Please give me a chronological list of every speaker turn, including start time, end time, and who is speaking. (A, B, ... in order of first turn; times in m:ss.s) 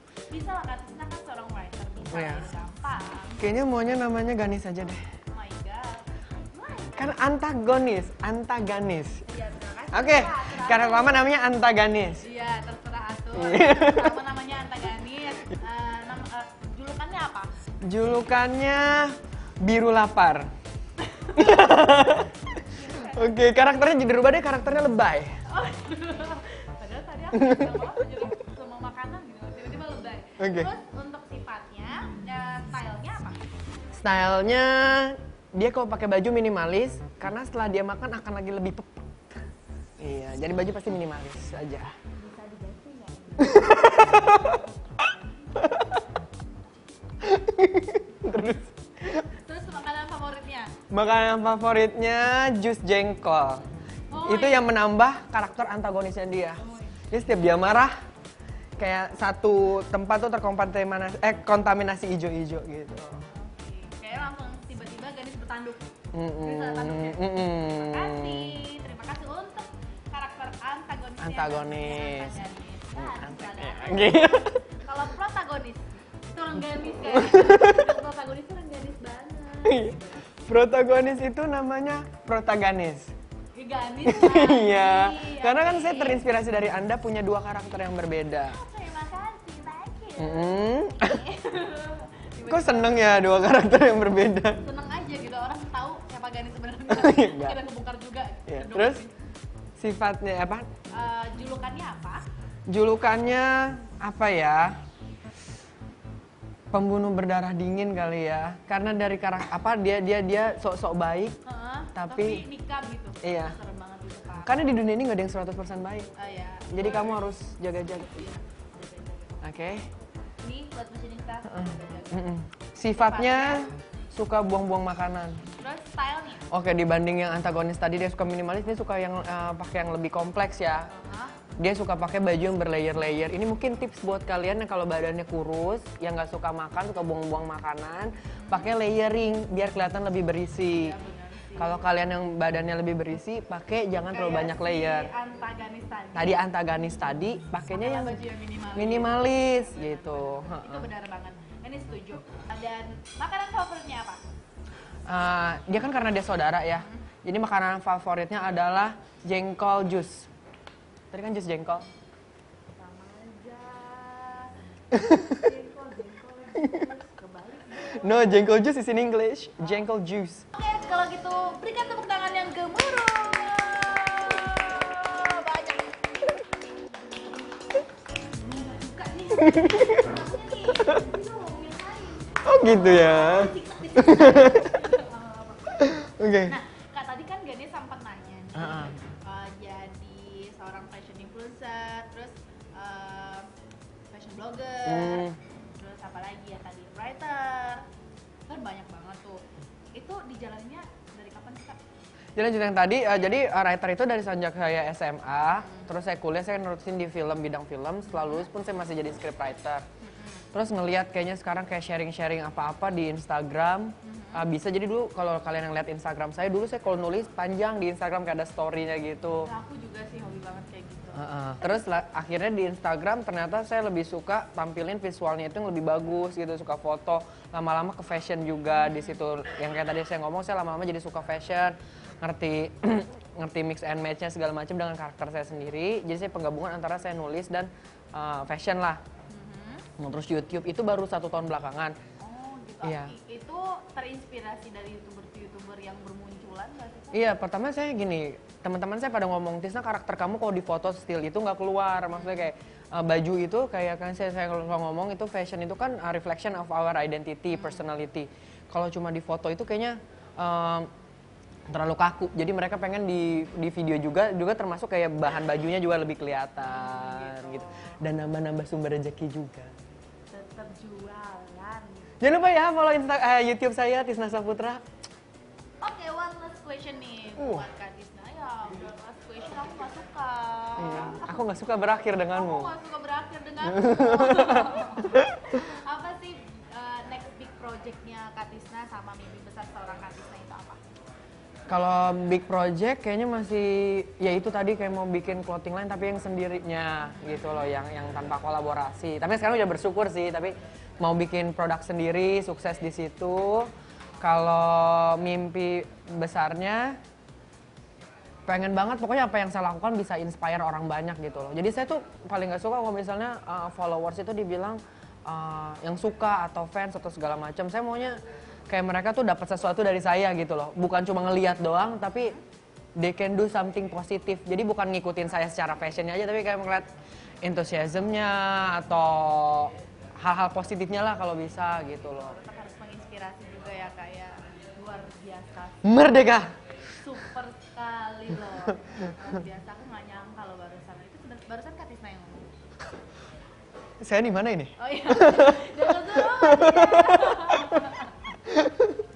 0:00.3-0:03.4 A
0:02.1-0:02.5 B
0:03.4-0:05.0 B
0:05.3-0:07.1 A
0:07.0-0:09.2 B
0:09.2-0:11.3 A
0:09.9-0:12.2 B
0:12.2-0:17.5 A
0:13.4-0:14.2 B
0:17.8-0:20.5 B
0:21.0-0:21.7 A
0:21.4-0:25.4 B
0:22.6-0:24.0 A
0:25.4-0:33.4 A
0:27.3-0:27.7 B
0:30.4-0:30.7 B
0:33.9-0:39.4 B
0:40.0-0:41.9 B
0:42.2-0:45.7 A
0:43.4-0:44.6 B
0:45.6-0:45.9 B
0:47.2-0:49.2 B
0:49.2-0:50.7 A
0:50.9-0:53.6 B
0:54.1-0:54.7 A
0:54.2-0:58.0 B
0:56.6-0:57.1 A
0:58.8-1:03.2 B
1:03.3-1:05.8 A
1:06.1-1:08.6 B
1:06.4-1:20.2 A
1:11.2-1:12.4 B
1:13.0-1:14.5 B
1:16.9-1:17.9 B
1:19.6-1:23.1 B
1:23.5-1:26.2 A
1:24.0-1:28.6 B
1:28.4-1:33.3 A
1:30.2-1:31.2 B
1:32.5-1:34.6 B
1:34.6-1:39.1 A
1:36.9-1:37.6 B
1:38.5-1:39.0 B
1:39.8-1:40.7 B
1:40.9-1:42.2 A
1:42.7-1:44.8 B
1:46.7-1:51.4 B
1:51.4-1:54.7 A
1:51.9-1:52.4 B
1:53.2-1:53.5 B
1:54.4-1:56.1 B
1:56.2-1:57.4 A
1:56.7-1:58.3 B
1:57.9-1:59.4 A
1:59.4-1:59.9 B
2:00.4-2:02.3 A
2:01.5-2:05.4 B
2:02.9-2:03.7 A
2:05.6-2:06.5 A
2:06.5-2:10.9 B
2:10.9-2:11.4 A
2:11.6-2:20.9 B
2:18.4-2:18.7 A
2:20.7-2:21.8 A
2:21.6-2:25.1 B
2:24.1-2:26.4 A
2:26.1-2:28.2 B
2:27.7-2:34.2 A
2:28.8-2:30.8 B
2:35.1-2:40.3 B
2:41.1-2:41.8 B
2:42.8-2:48.5 A
2:44.9-2:45.4 B
2:48.0-2:50.4 B
2:50.5-2:56.0 A
2:58.3-3:13.5 A
2:59.4-3:00.1 B
3:02.4-3:04.8 B
3:05.8-3:06.5 B
3:08.6-3:08.9 B
3:14.1-3:15.3 A
3:14.8-3:15.4 B
3:15.8-3:17.8 A
3:18.5-3:19.4 A
3:19.9-3:21.8 A
3:22.4-3:29.8 B
3:25.6-3:25.9 A
3:28.1-3:28.4 A
3:30.0-3:30.5 A
3:30.5-3:39.5 B
3:34.0-3:34.4 A
3:39.4-3:41.8 A
3:41.2-3:59.0 B
3:48.7-3:49.2 A
3:59.3-3:59.9 A
4:00.0-4:02.0 B
4:02.2-4:07.3 A
4:02.8-4:03.1 B
4:07.1-4:20.9 B
4:12.1-4:12.5 A
4:17.5-4:17.8 A
4:21.7-4:29.7 B
4:26.6-4:28.0 A
4:30.3-4:32.1 A
4:32.2-4:34.8 B
4:35.8-4:41.5 A
4:37.4-4:37.6 B
4:40.8-4:42.7 B
4:42.3-4:50.8 A
4:43.7-4:45.3 B
4:51.7-5:03.7 B
4:57.0-4:57.6 A
5:04.2-5:07.0 B
5:08.5-5:22.3 B
5:22.1-5:22.4 A
5:23.0-5:26.9 B
5:27.4-5:32.4 B
5:32.2-5:35.9 A
5:35.8-5:36.5 B
5:37.0-5:42.5 A
5:44.0-5:47.8 B
5:44.8-5:48.4 A
5:48.5-5:49.0 B